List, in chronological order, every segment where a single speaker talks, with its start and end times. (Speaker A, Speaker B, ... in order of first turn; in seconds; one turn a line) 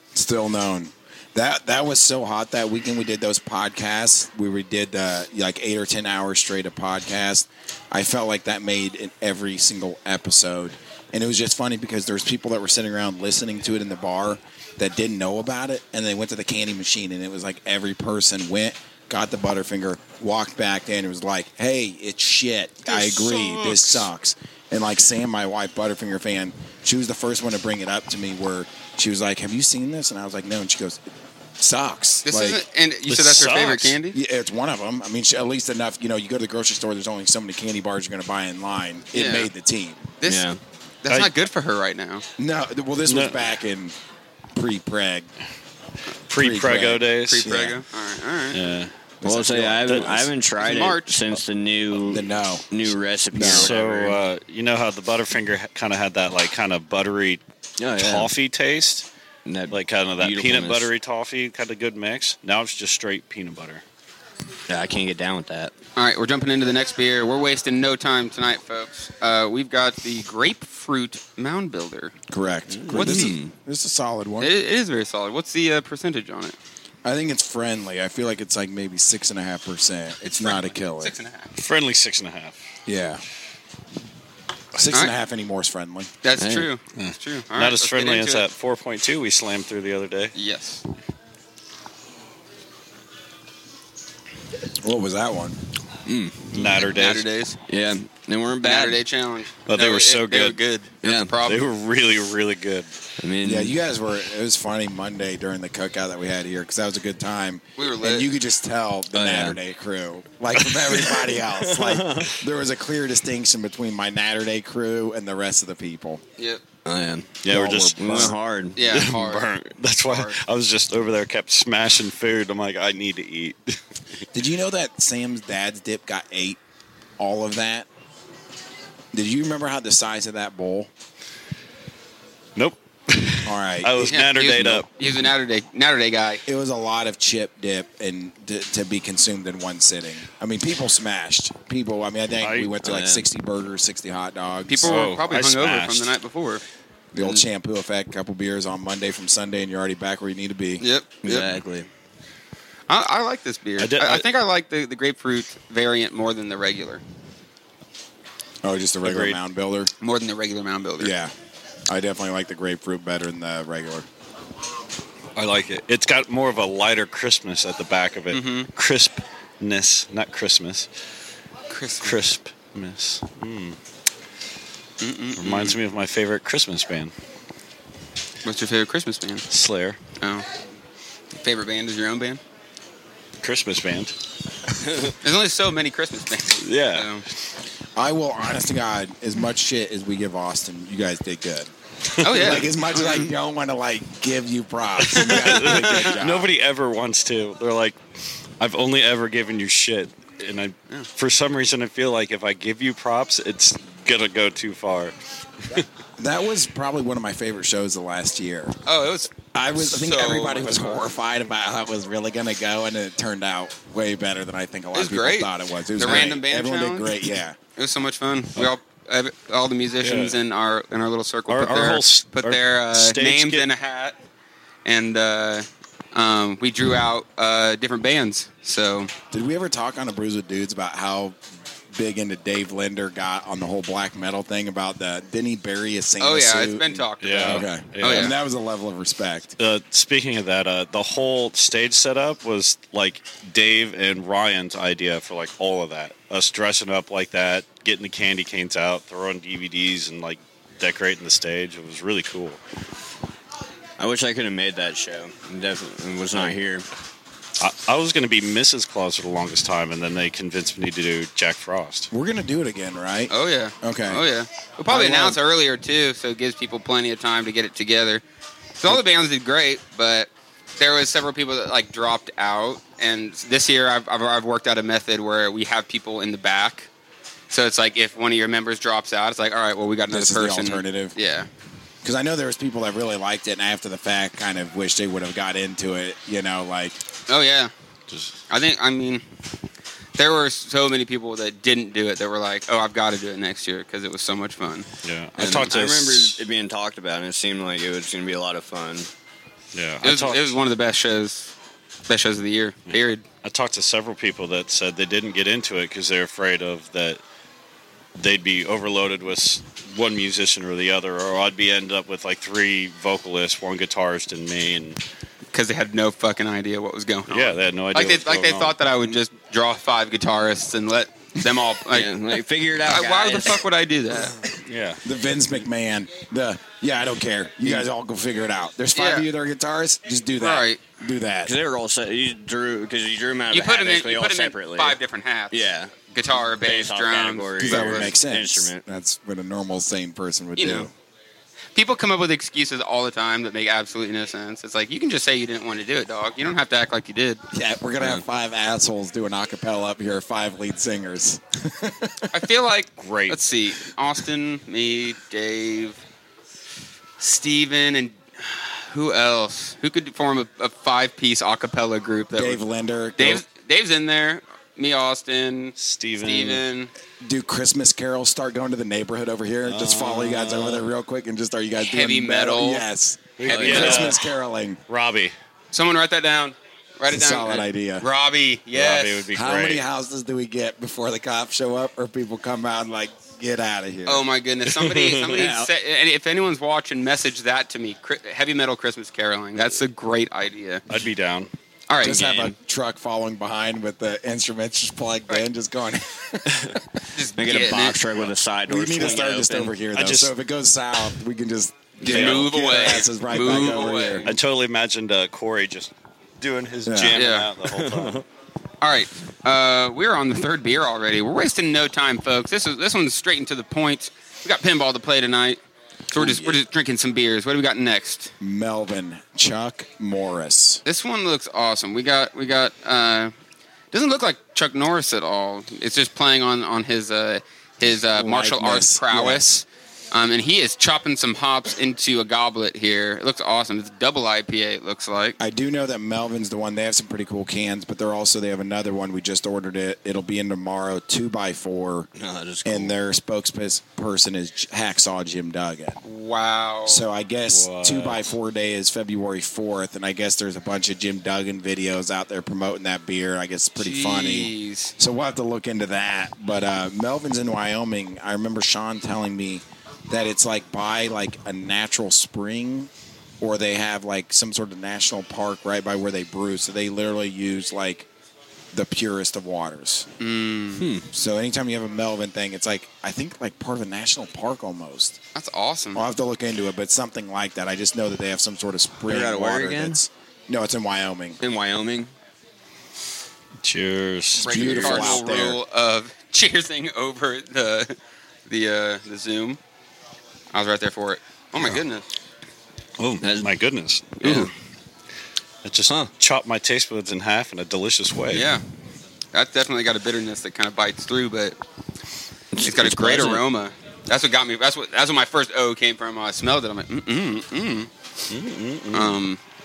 Speaker A: 0.1-31.0
Speaker B: 23.3-24.0
Speaker A: 31.6-32.6
Speaker C: 32.2-34.2
Speaker B: 33.1-34.0
Speaker A: 34.1-40.1
Speaker C: 39.1-39.5
Speaker C: 40.2-40.5
Speaker D: 40.2-40.6
Speaker C: 41.0-42.2
Speaker A: 42.4-43.9
Speaker B: 43.1-43.4
Speaker A: 44.5-45.3
Speaker B: 46.3-47.5
Speaker A: 46.4-47.8
Speaker C: 47.2-48.6
Speaker B: 48.5-48.9
Speaker A: 49.2-50.3
Speaker D: 49.2-54.2
Speaker B: 49.9-50.2
Speaker C: 50.6-51.2
Speaker A: 52.0-52.6
Speaker A: 53.3-53.7
Speaker B: 53.4-57.4
Speaker D: 57.8-58.3
Speaker B: 58.0-59.1
Speaker D: 59.5-60.9
Speaker B: 59.7-63.8
Speaker D: 64.7-65.7
Speaker C: 66.0-72.1
Speaker A: 72.3-74.5
Speaker D: 72.7-73.5
Speaker C: 72.9-73.3
Speaker C: 74.4-76.6
Speaker A: 77.0-81.1
Speaker C: 80.2-81.5
Speaker B: 81.5-82.6
Speaker A: 82.9-83.2
Speaker A: 84.7-86.1
Speaker C: 86.2-88.5
Speaker D: 86.4-86.7
Speaker B: 87.0-90.3
Speaker C: 90.3-90.8
Speaker A: 94.8-95.6
Speaker D: 96.1-96.7
Speaker B: 96.5-97.2
Speaker C: 96.7-97.6
Speaker D: 97.7-99.0
Speaker C: 98.6-101.6
Speaker B: 99.7-100.6
Speaker D: 101.0-101.3
Speaker B: 101.5-102.9
Speaker D: 103.2-103.8
Speaker A: 103.4-116.2
Speaker C: 107.8-108.3
Speaker D: 109.1-109.6
Speaker D: 110.7-112.3
Speaker D: 116.8-117.4
Speaker B: 117.4-118.3
Speaker A: 117.5-118.4
Speaker D: 118.0-118.9
Speaker C: 118.8-119.5
Speaker B: 118.9-123.8
Speaker C: 120.0-120.4
Speaker A: 124.3-126.6
Speaker A: 127.2-127.9
Speaker A: 129.1-130.9
Speaker B: 132.6-135.3
Speaker A: 133.4-134.2
Speaker C: 134.0-136.4
Speaker A: 136.5-145.1
Speaker B: 142.4-142.7
Speaker D: 142.8-143.2
Speaker C: 144.7-146.6
Speaker B: 144.8-146.1
Speaker A: 147.1-150.8
Speaker C: 150.8-151.5
Speaker D: 151.2-151.9
Speaker C: 152.9-157.0
Speaker B: 153.8-154.3
Speaker A: 158.6-159.9
Speaker B: 159.0-159.4
Speaker C: 160.0-161.1
Speaker A: 161.0-161.3
Speaker A: 161.9-164.1
Speaker B: 165.4-170.9
Speaker C: 168.3-168.7
Speaker C: 171.7-172.2
Speaker B: 172.0-173.8
Speaker C: 175.0-175.8
Speaker B: 175.4-177.1
Speaker C: 178.4-179.4
Speaker B: 179.5-180.0
Speaker C: 180.2-180.4
Speaker C: 181.4-182.4
Speaker B: 183.4-184.1
Speaker D: 184.9-185.1
Speaker C: 185.2-187.2
Speaker B: 186.6-187.1
Speaker A: 187.9-191.7
Speaker C: 192.2-193.2
Speaker A: 192.2-196.5
Speaker B: 192.3-192.6
Speaker B: 195.1-198.0
Speaker C: 195.1-195.8
Speaker B: 198.6-205.1
Speaker A: 206.2-208.8
Speaker C: 208.9-211.0
Speaker A: 209.5-217.6
Speaker C: 214.9-217.1
Speaker B: 216.0-216.3
Speaker C: 217.8-224.2
Speaker B: 220.0-220.4
Speaker B: 221.5-223.7
Speaker C: 224.8-229.1
Speaker A: 229.3-231.4
Speaker A: 231.9-239.6
Speaker C: 236.2-238.3
Speaker B: 237.2-238.3
Speaker B: 239.6-252.6
Speaker D: 254.0-256.9
Speaker B: 257.6-262.1
Speaker A: 262.1-264.3
Speaker C: 263.3-268.2
Speaker A: 264.9-265.4
Speaker C: 268.8-276.9
Speaker C: 277.5-281.5
Speaker A: 280.1-281.2
Speaker A: 282.0-287.0
Speaker C: 287.3-287.7
Speaker B: 288.1-288.3
Speaker C: 288.5-289.2
Speaker C: 290.2-294.9
Speaker B: 295.0-296.4
Speaker D: 295.4-299.1
Speaker B: 299.7-300.6
Speaker C: 300.0-301.5
Speaker C: 302.1-303.2
Speaker B: 302.9-307.2
Speaker B: 308.2-315.0
Speaker C: 315.5-322.1
Speaker B: 317.3-318.8
Speaker D: 321.9-323.6
Speaker C: 322.8-324.3
Speaker B: 324.7-325.0
Speaker A: 325.0-331.5
Speaker C: 328.9-329.3
Speaker C: 330.4-330.8
Speaker D: 331.4-335.0
Speaker C: 333.5-338.1
Speaker D: 335.5-335.9
Speaker D: 336.5-338.8
Speaker A: 337.6-340.9
Speaker C: 340.6-340.9
Speaker C: 341.8-347.4
Speaker A: 347.5-352.3
Speaker C: 352.3-356.0
Speaker B: 353.0-353.4
Speaker C: 357.2-362.6
Speaker A: 362.4-363.4
Speaker C: 363.2-366.9
Speaker B: 365.8-366.6
Speaker A: 367.2-374.8
Speaker B: 369.7-370.8
Speaker C: 371.8-372.9
Speaker B: 373.4-374.2
Speaker C: 373.4-374.1
Speaker D: 373.5-374.0
Speaker B: 374.9-375.3
Speaker C: 375.7-379.3
Speaker A: 377.1-378.1
Speaker B: 378.7-379.8
Speaker A: 379.3-384.3
Speaker C: 384.1-390.8
Speaker B: 384.8-385.1
Speaker D: 385.3-385.7
Speaker B: 390.9-391.5
Speaker C: 391.9-392.4
Speaker A: 392.0-396.8
Speaker D: 392.1-392.4
Speaker C: 397.1-398.0
Speaker D: 397.4-399.7
Speaker A: 398.7-404.3
Speaker B: 399.9-400.3
Speaker C: 402.0-404.2
Speaker B: 402.1-402.9
Speaker B: 404.2-408.2
Speaker A: 406.9-407.2
Speaker C: 407.1-407.5
Speaker D: 407.7-408.2
Speaker C: 408.8-415.6
Speaker C: 416.1-418.3
Speaker A: 416.1-416.6
Speaker A: 418.4-420.8
Speaker C: 420.8-423.3
Speaker C: 423.9-435.4
Speaker A: 428.1-429.5
Speaker A: 435.4-442.1
Speaker D: 442.2-442.9
Speaker A: 442.6-446.0
Speaker C: 446.0-447.0
Speaker A: 446.9-468.1
Speaker B: 447.5-448.2
Speaker C: 453.8-454.9
Speaker A: 468.7-470.1
Speaker C: 470.2-470.9
Speaker D: 470.8-471.1
Speaker A: 471.1-475.2
Speaker C: 475.3-476.0
Speaker A: 475.9-481.4
Speaker D: 479.1-480.0
Speaker D: 481.4-482.1
Speaker B: 483.6-485.1
Speaker A: 484.4-485.6
Speaker C: 484.4-487.9
Speaker C: 488.5-489.6
Speaker C: 490.5-492.1
Speaker B: 493.0-494.5
Speaker D: 493.2-493.5
Speaker D: 494.2-494.5
Speaker B: 495.6-498.5
Speaker C: 498.3-498.6
Speaker C: 499.3-501.6
Speaker D: 502.5-503.4
Speaker C: 502.6-507.9
Speaker B: 508.3-509.2
Speaker C: 508.9-509.4